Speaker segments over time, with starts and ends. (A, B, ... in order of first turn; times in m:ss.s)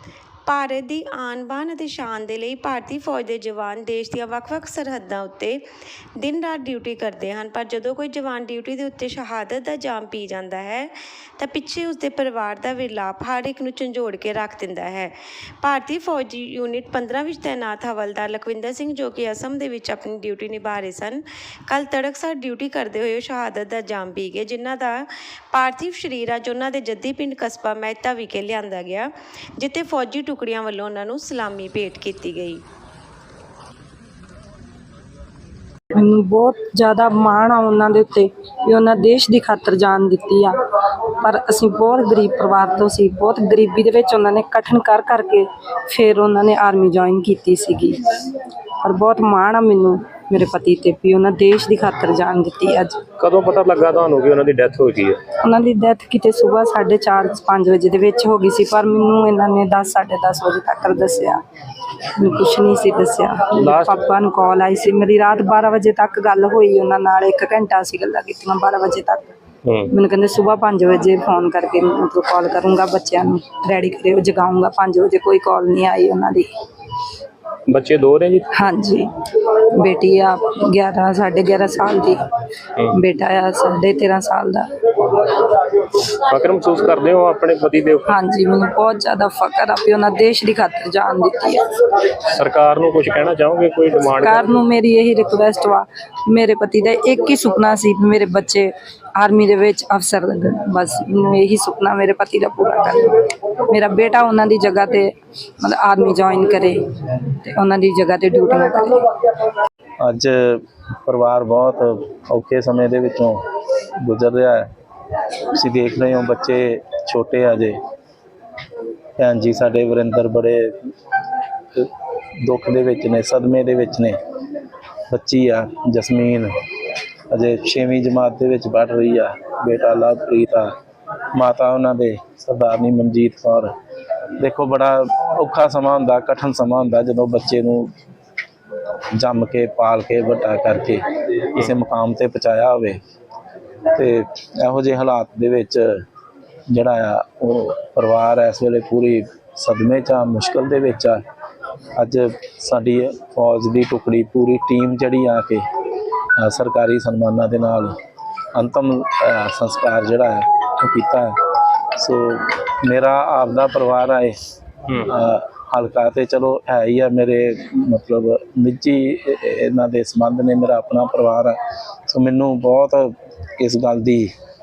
0:00.5-0:05.6 A
0:06.2-0:32.6 A
0:35.9-0:40.6 B
0:41.0-0:53.0 B
0:53.2-0:55.2 C
0:55.4-1:01.4 B
1:01.9-1:09.3 B
1:03.6-1:03.9 C
1:09.9-1:16.5 B
1:17.7-1:18.5 C
1:18.5-1:22.2 B
1:22.9-1:24.7 B
1:26.0-1:28.1 C
1:28.1-1:31.7 B
1:32.3-1:34.5 C
1:34.2-1:49.1 B
1:50.0-1:57.8 D
1:59.2-2:04.2 D
2:05.1-2:10.7 D
2:11.3-2:13.7 D
2:14.3-2:17.9 D
2:19.2-2:23.0 D
2:23.9-2:26.0 D
2:26.7-2:31.2 D
2:31.9-2:37.9 D
2:38.5-2:41.4 D
2:41.9-2:44.4 D
2:45.0-2:54.3 D